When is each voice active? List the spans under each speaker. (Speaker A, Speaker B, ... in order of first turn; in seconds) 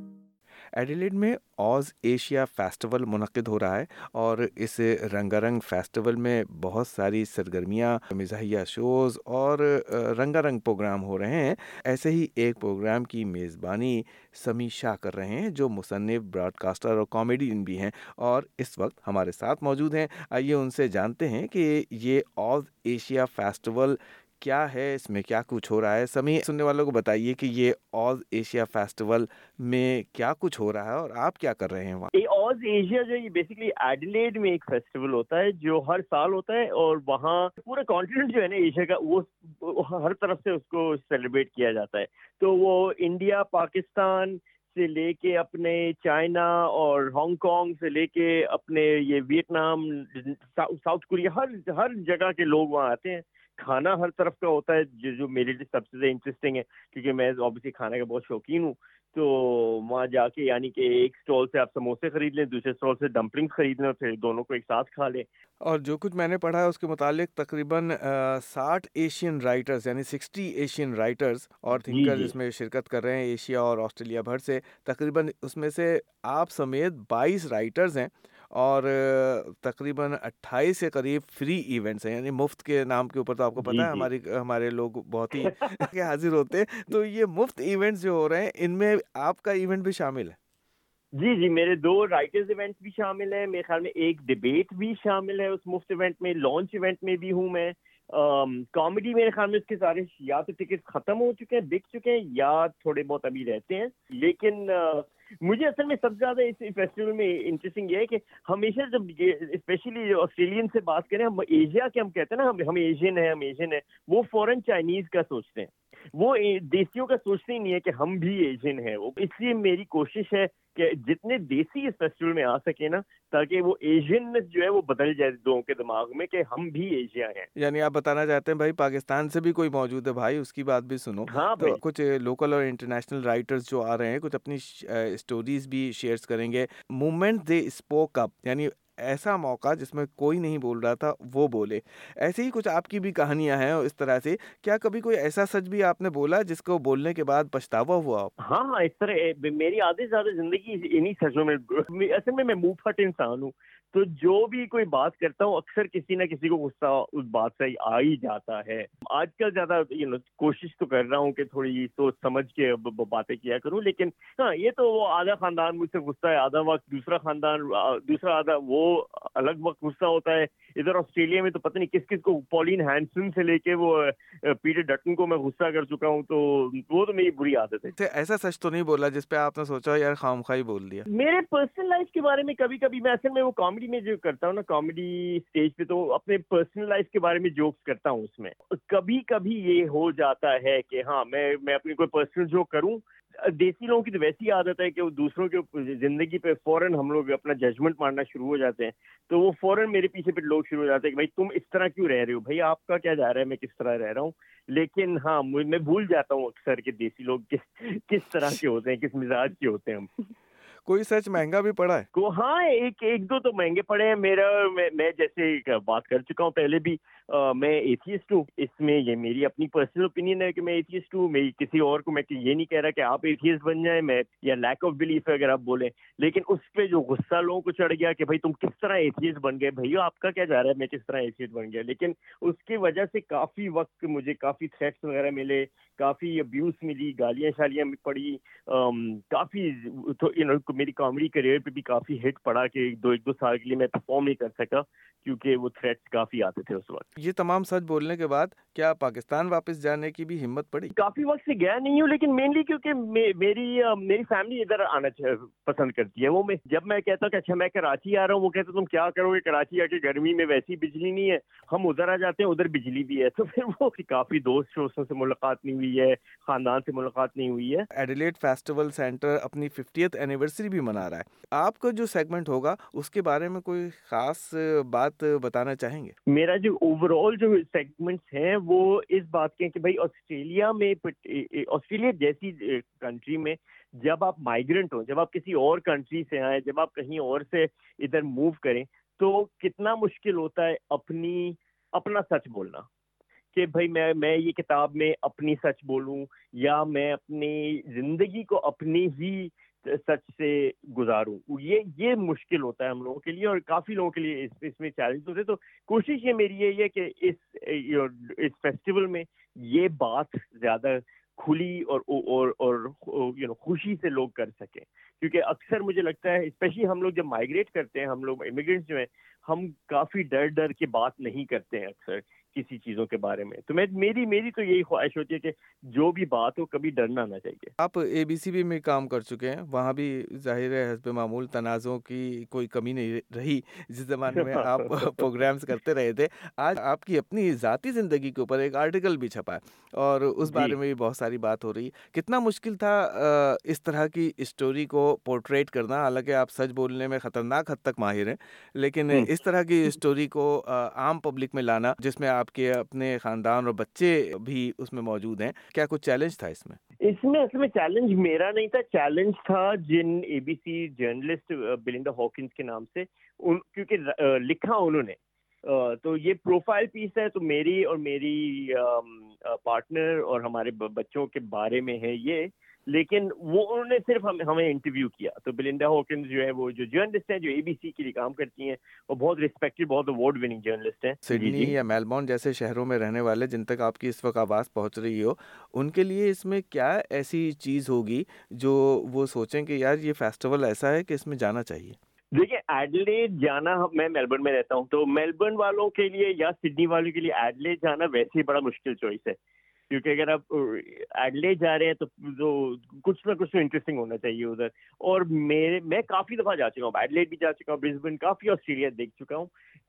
Speaker A: 0.8-32.1, 65.6-90.4, 127.6-148.3, 178.0-181.1, 210.9-212.1, 247.2-250.9, 267.9-276.2, 327.8-356.8, 381.3-392.0
Speaker B: 32.1-65.3, 71.9-72.3, 83.6-84.1, 85.5-85.9, 91.2-127.5, 131.3-131.8, 148.4-177.9, 181.1-210.3, 212.1-247.1, 250.9-267.9, 276.3-292.9, 293.5-327.7, 334.3-335.3, 340.5-340.8, 357.0-381.7, 392.3-399.4, 399.9-409.5